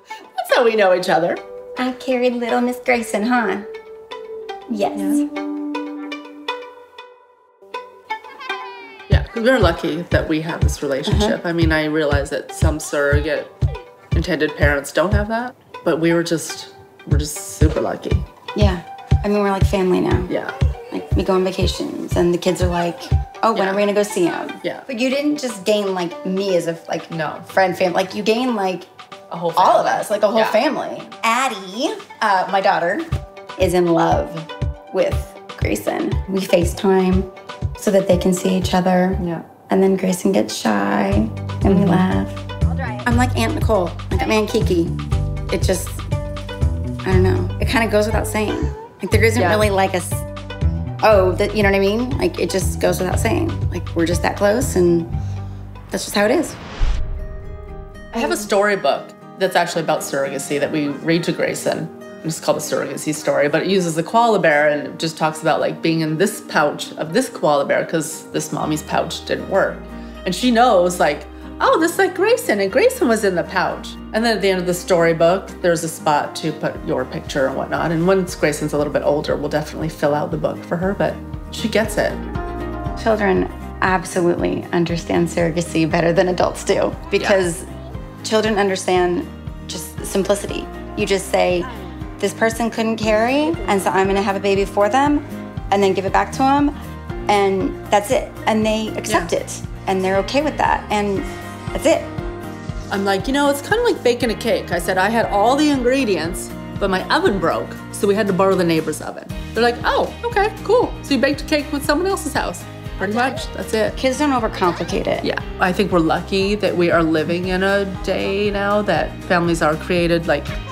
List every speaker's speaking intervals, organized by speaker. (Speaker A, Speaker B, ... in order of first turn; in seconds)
Speaker A: 0.4-1.4, 5.0-5.2, 9.1-13.5, 14.1-18.2, 20.3-20.5, 23.5-23.8, 27.1-27.5, 29.3-30.6, 39.2-39.5, 41.7-42.0, 49.4-49.7, 58.1-82.2, 99.0-99.3, 102.9-114.0, 115.2-120.5
Speaker B: 1.8-3.7, 4.7-5.2, 11.1-11.4, 18.5-20.3, 20.9-28.9, 29.6-42.4, 43.0-45.0, 45.5-46.0, 47.0-50.2, 51.0-55.1, 55.9-56.6, 83.0-87.7, 88.2-96.7, 97.3-102.1, 114.0-115.3